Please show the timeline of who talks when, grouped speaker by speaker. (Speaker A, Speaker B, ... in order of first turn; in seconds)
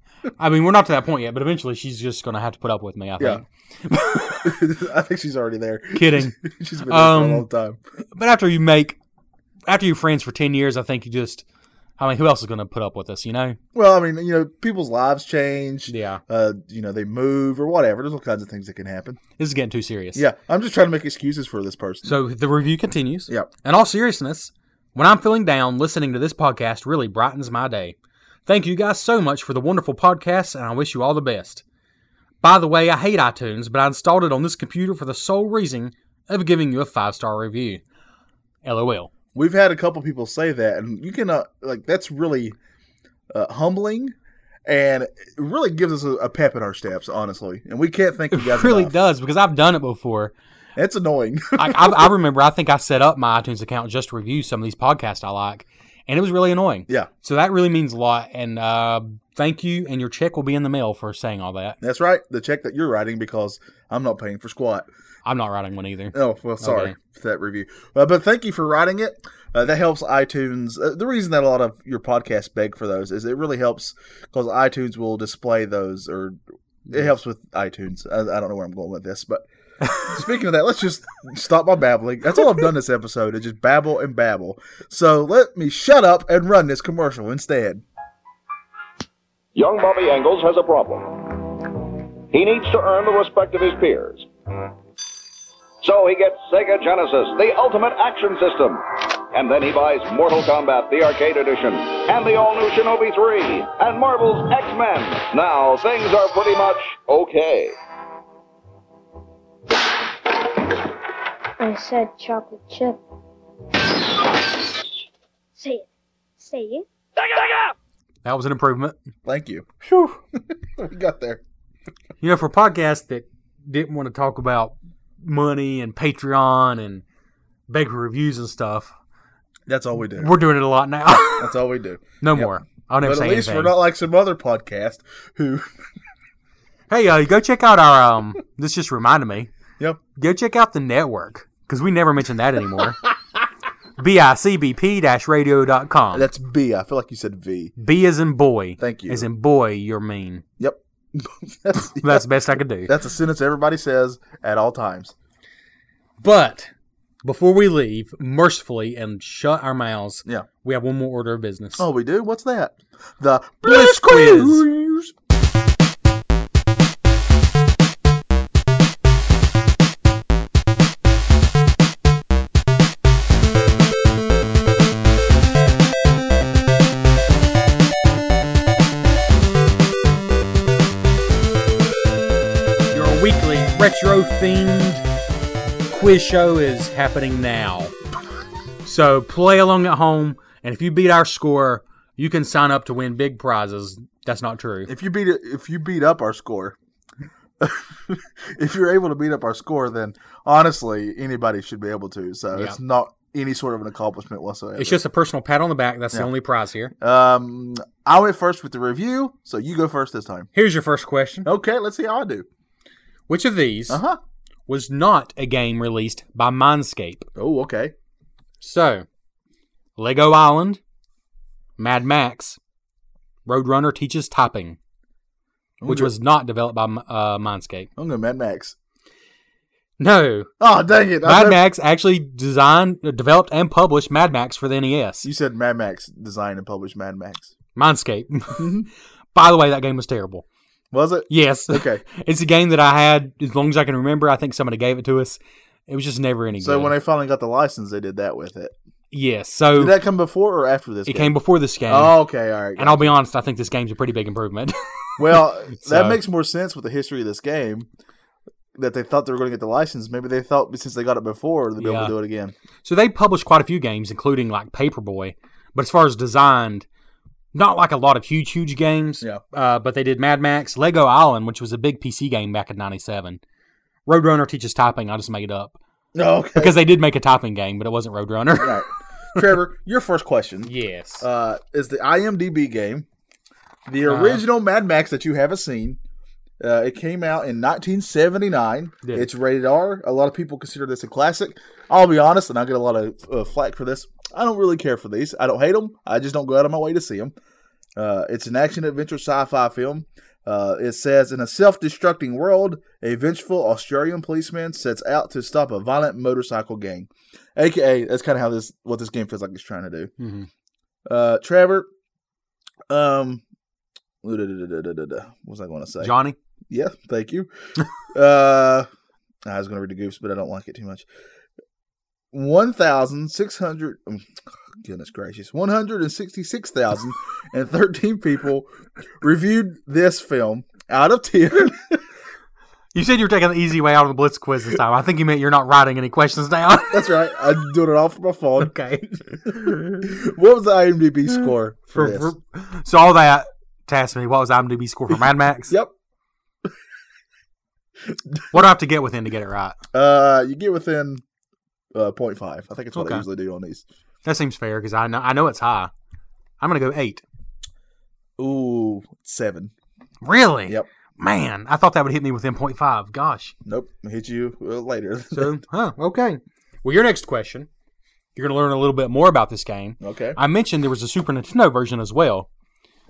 Speaker A: 0.4-4.5, 5.9-7.5, 8.2-9.0, 9.7-11.4, 12.0-13.6, 15.9-16.2, 19.4-20.2, 22.0-31.6, 32.4-37.8, 38.6-39.1, 48.3-50.3, 51.6-61.8, 65.2-67.0, 118.2-119.0, 122.2-127.0, 127.7-128.9, 130.2-131.5, 132.2-133.8, 136.9-139.5, 140.2-143.0, 144.0-146.3, 147.8-150.4, 152.0-152.9, 156.2-156.7, 157.2-161.9, 163.6-164.7, 182.9-185.1, 185.9-187.9, 188.8-194.9, 204.8-206.9, 210.5-211.5, 213.3-214.0, 214.7-217.3, 218.6-219.1, 220.0-220.8, 221.8-222.6, 223.5-224.8, 225.8-227.9, 230.0-230.5, 231.2-235.3, 237.8-238.7, 239.3-240.4, 241.3-246.9, 249.1-250.0, 251.1-252.2, 252.8-256.2, 261.8-262.1, 262.8-266.9, 267.5-273.4, 274.1-275.8, 276.6-278.8, 280.6-281.2, 284.1-284.4, 310.2-310.5, 316.0-316.4, 332.9-337.1, 338.6-340.1, 341.9-345.8, 348.5-349.8, 352.9-353.2, 354.2-355.9, 356.6-357.2, 360.2-363.5, 365.3-367.7, 368.4-372.5
Speaker B: 4.4-7.8, 13.7-19.2, 20.1-22.2, 39.3-42.6, 43.3-44.1, 44.7-48.9, 50.8-52.1, 61.8-64.9, 66.1-76.4, 76.9-79.5, 80.0-87.8, 119.2-121.4, 129.7-130.3, 131.3-132.5, 133.0-135.7, 146.1-147.7, 148.8-149.3, 150.6-152.3, 152.9-155.1, 161.8-165.1, 194.9-196.8, 197.6-205.0, 207.0-210.5, 211.4-212.5, 213.9-214.2, 217.4-217.9, 225.8-226.1, 228.0-228.8, 230.6-231.6, 235.2-237.5, 238.6-238.9, 240.9-242.0, 246.6-248.8, 249.8-251.3, 251.9-253.1, 255.2-257.9, 258.8-262.5, 276.1-276.8, 278.6-283.1, 283.9-286.0, 286.6-297.3, 298.0-310.1, 311.1-311.9, 312.9-313.4, 314.2-316.1, 316.7-317.5, 318.1-318.9, 319.4-321.1, 322.3-324.3, 324.8-328.7, 329.2-332.0, 336.9-342.3, 349.9-351.2, 351.9-353.8, 358.4-359.7, 363.7-365.6, 370.0-370.4
Speaker C: 89.5-91.4, 92.3-94.3, 95.8-107.8
Speaker D: 111.6-113.0, 115.6-115.9, 116.4-117.3